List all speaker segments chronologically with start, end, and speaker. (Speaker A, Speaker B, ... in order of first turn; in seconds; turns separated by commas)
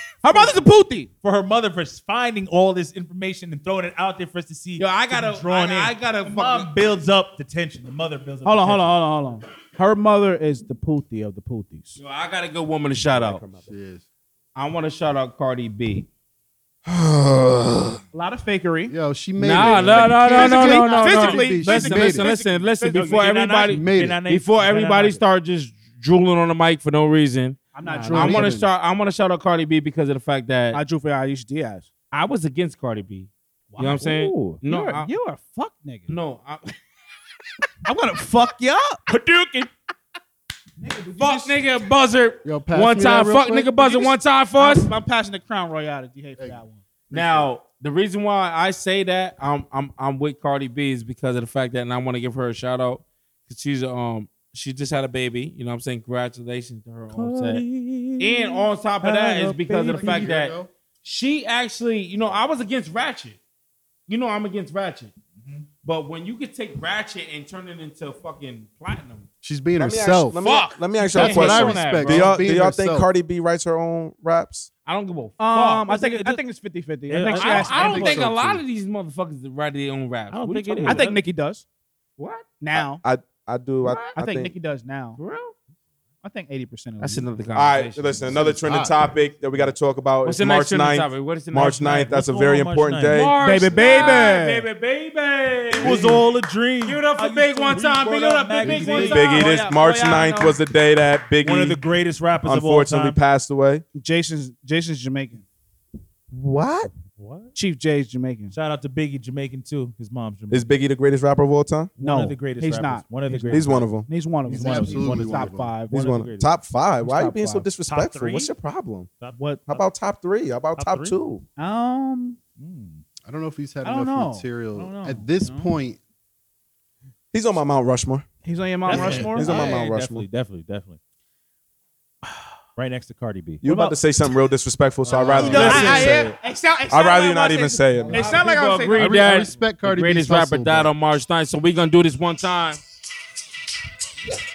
Speaker A: 0.2-1.1, Speaker B: 0.2-0.6, Speaker B: 1.2-8.9, Speaker C: 4.8-6.7, Speaker A: 8.4-12.0, Speaker C: 12.0-13.4, Speaker D: 13.1-13.7, Speaker E: 13.7-14.0, Speaker C: 14.6-16.1, Speaker D: 16.9-18.0, Speaker A: 18.1-18.9, Speaker E: 18.9-22.3, Speaker C: 19.4-27.6, Speaker A: 20.3-23.3, Speaker B: 22.9-25.2, Speaker E: 23.7-24.2, Speaker A: 27.7-28.5, Speaker E: 27.9-28.7, Speaker C: 28.1-30.8, Speaker A: 30.7-31.9, Speaker C: 32.1-35.1, Speaker A: 33.7-34.1, Speaker B: 33.8-34.6, Speaker A: 34.6-36.1, Speaker C: 36.1-36.8, Speaker A: 37.9-39.1, Speaker A: 40.8-41.6, Speaker C: 41.2-44.9, Speaker E: 42.4-43.9, Speaker A: 44.6-46.8, Speaker C: 47.1-57.6, Speaker E: 47.2-47.4, Speaker B: 57.1-60.3, Speaker C: 58.2-63.4, Speaker E: 59.9-60.7, Speaker C: 64.1-65.1, Speaker C: 65.8-69.3, Speaker E: 69.4-70.4, Speaker D: 69.8-74.7, Speaker C: 70.4-72.4, Speaker E: 71.0-73.1, Speaker C: 74.9-76.0, Speaker A: 75.4-78.2, Speaker B: 75.9-76.4, Speaker B: 77.1-78.1, Speaker C: 77.3-81.0, Speaker E: 77.7-78.6, Speaker B: 80.3-81.2, Speaker A: 80.8-81.6, Speaker C: 82.2-82.5, Speaker A: 82.6-83.0, Speaker D: 82.8-84.5, Speaker C: 83.8-84.1, Speaker A: 84.2-85.2, Speaker C: 85.2-85.5, Speaker A: 86.2-87.3, Speaker C: 87.0-88.4, Speaker D: 87.5-93.3, Speaker E: 88.3-89.0, Speaker C: 90.2-92.0, Speaker B: 91.7-99.5, Speaker C: 93.1-94.4, Speaker A: 93.4-94.7, Speaker C: 95.7-96.2, Speaker D: 95.8-96.2, Speaker C: 96.8-99.5, Speaker A: 98.6-100.6, Speaker D: 98.9-101.8, Speaker B: 101.4-103.2, Speaker D: 102.4-103.8, Speaker A: 104.0-105.5, Speaker D: 106.3-106.9, Speaker B: 106.9-107.5, Speaker A: 107.5-108.5, Speaker B: 108.5-110.7, Speaker D: 110.5-111.9, Speaker B: 112.0-113.9, Speaker A: 112.0-116.0, Speaker D: 113.5-114.1, Speaker B: 114.5-116.5, Speaker E: 114.5-115.7, Speaker D: 115.9-119.1, Speaker A: 117.0-117.7, Speaker B: 117.9-118.5, Speaker B: 119.2-119.8, Speaker A: 119.4-119.6, Speaker D: 119.7-121.4, Speaker B: 120.8-121.2, Speaker A: 121.6-122.4, Speaker B: 122.6-123.0, Speaker E: 123.2-126.0, Speaker A: 123.8-125.7, Speaker B: 124.9-125.2, Speaker D: 127.3-128.3, Speaker A: 128.4-129.7, Speaker B: 128.9-131.0, Speaker D: 128.9-130.3, Speaker E: 128.9-129.3, Speaker B: 132.8-133.6, Speaker D: 133.6-136.3, Speaker A: 133.7-134.0, Speaker E: 135.1-136.0, Speaker B: 135.3-136.3, Speaker A: 135.4-139.2, Speaker D: 136.9-138.3, Speaker C: 138.1-142.8, Speaker E: 139.0-140.9